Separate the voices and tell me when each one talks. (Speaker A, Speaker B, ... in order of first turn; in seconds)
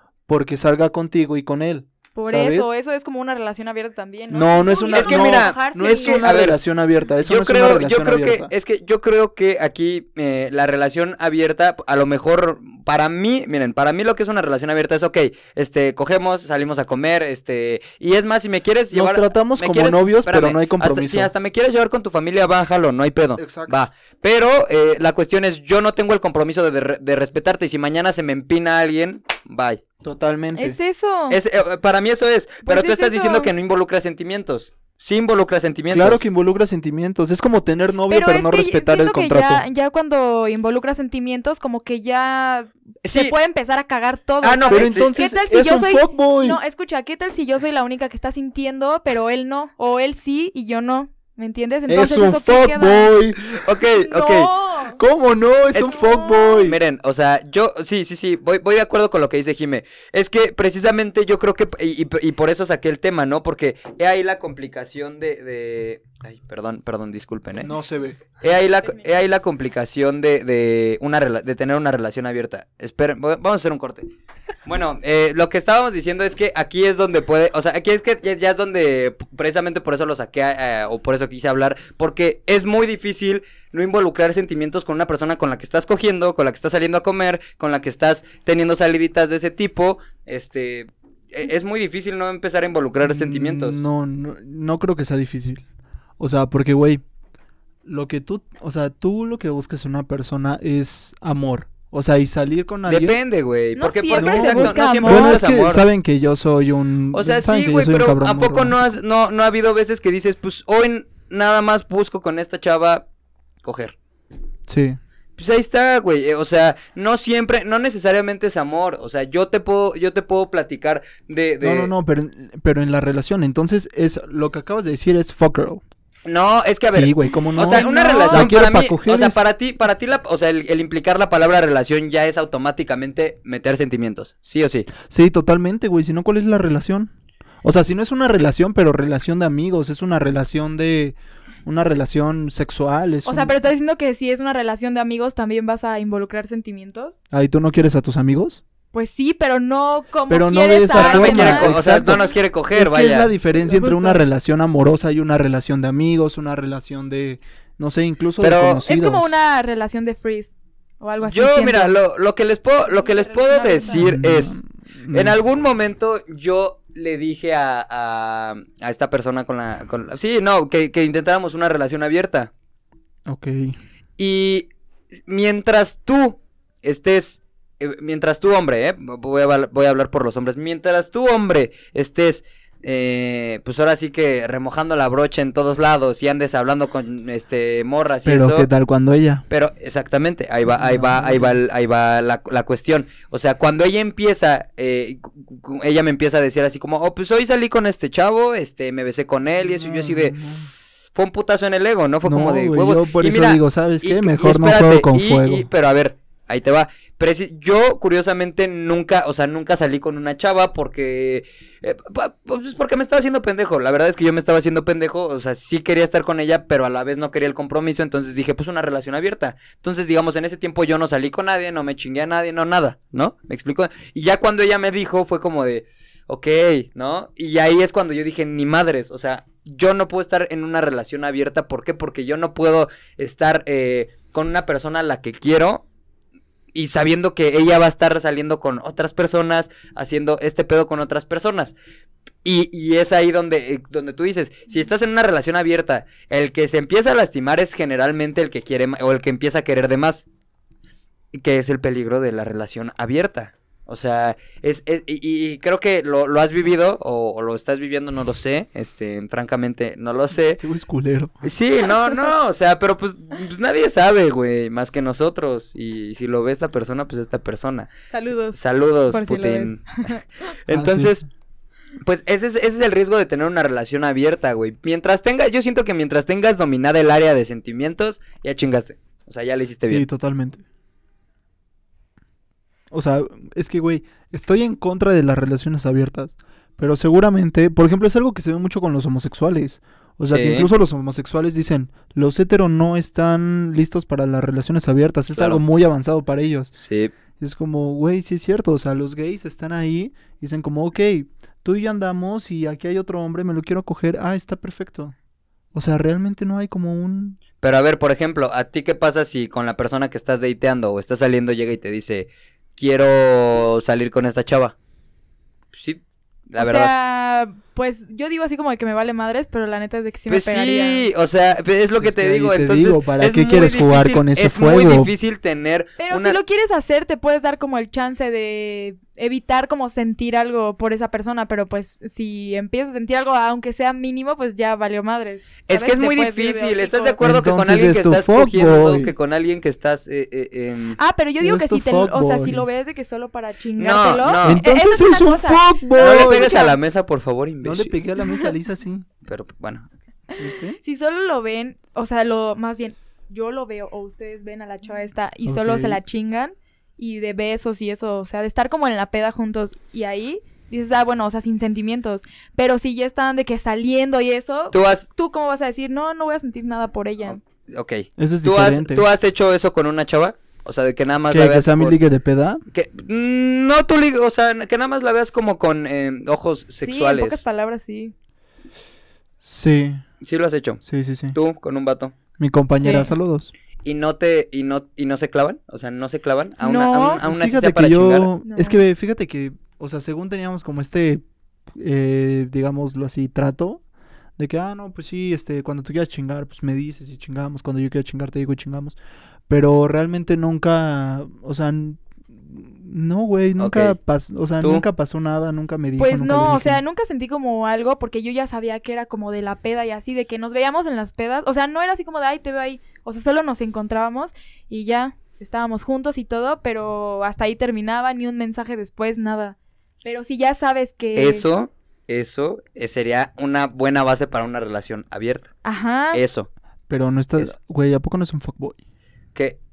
Speaker A: 0.3-2.7, 4.3-8.5, 18.9-21.3, 23.4-23.8, 30.0-30.8, 35.9-39.6, 44.7-46.6, 51.9-53.6, 55.0-56.8, 67.6-68.2, 93.0-95.6, 96.2-97.0, 97.8-103.2, 104.1-108.8, 114.7-115.0, 121.6-125.8, 126.9-129.4, 135.0-137.1, 137.6-143.5, 147.3-148.6, 150.3-159.3, 163.9-165.4, 173.3-173.8, 188.2-189.4, 190.7-191.6, 199.6-200.7, 202.2-205.7, 260.5-261.4, 270.7-271.2, 279.8-280.6, 282.9-296.7, 297.4-305.1, 305.7-307.4, 322.0-325.1, 337.2-339.1, 341.4-342.6, 344.4-346.6, 347.6-349.1, 350.4-350.8, 355.4-356.0, 368.2-369.0, 371.3-372.6, 379.4-380.0, 380.8-381.3, 382.4-383.5, 387.2-391.2, 391.7-393.8, 394.4-399.0, 399.5-406.8, 426.9-428.8
Speaker B: 2.1-6.2, 30.5-31.4, 32.6-33.5, 38.1-53.1, 54.0-55.0, 55.8-56.6, 103.8-105.4, 127.6-128.5, 143.2-147.2, 148.9-152.3, 153.7-154.2, 158.9-162.0, 162.9-164.1, 268.1-268.6, 269.1-270.2, 316.6-321.1, 326.0-337.2, 341.0-346.8, 350.8-367.4, 376.8-378.1, 382.8-383.1, 386.6-387.2, 388.4-388.8, 406.0-421.4, 425.6-426.2
Speaker C: 4.9-6.6, 7.2-29.8, 31.3-36.3, 43.0-43.3, 44.4-45.1, 53.6-54.5, 55.7-56.0, 56.5-67.7, 68.4-74.0, 74.7-93.8, 102.9-105.8, 107.1-113.0, 113.6-113.9, 115.4-121.9, 126.2-134.9, 150.9-153.3, 158.4-158.8, 161.2-164.6, 165.1-172.5, 174.2-174.7, 175.2-188.7, 189.5-235.8, 236.7-241.7, 242.4-250.2, 251.3-260.6, 261.4-267.9, 268.5-270.1, 270.6-271.2, 272.0-280.1, 290.2-290.7, 295.3-295.6, 296.8-297.1, 307.6-314.8, 315.7-316.9, 320.3-326.4, 335.7-341.0, 343.8-344.6, 345.9-347.9, 349.2-349.9, 364.7-365.1, 367.7-372.0, 372.7-377.4, 380.2-380.8, 381.3-382.1, 383.8-388.3, 403.6-403.9, 421.1-425.5, 426.1-426.5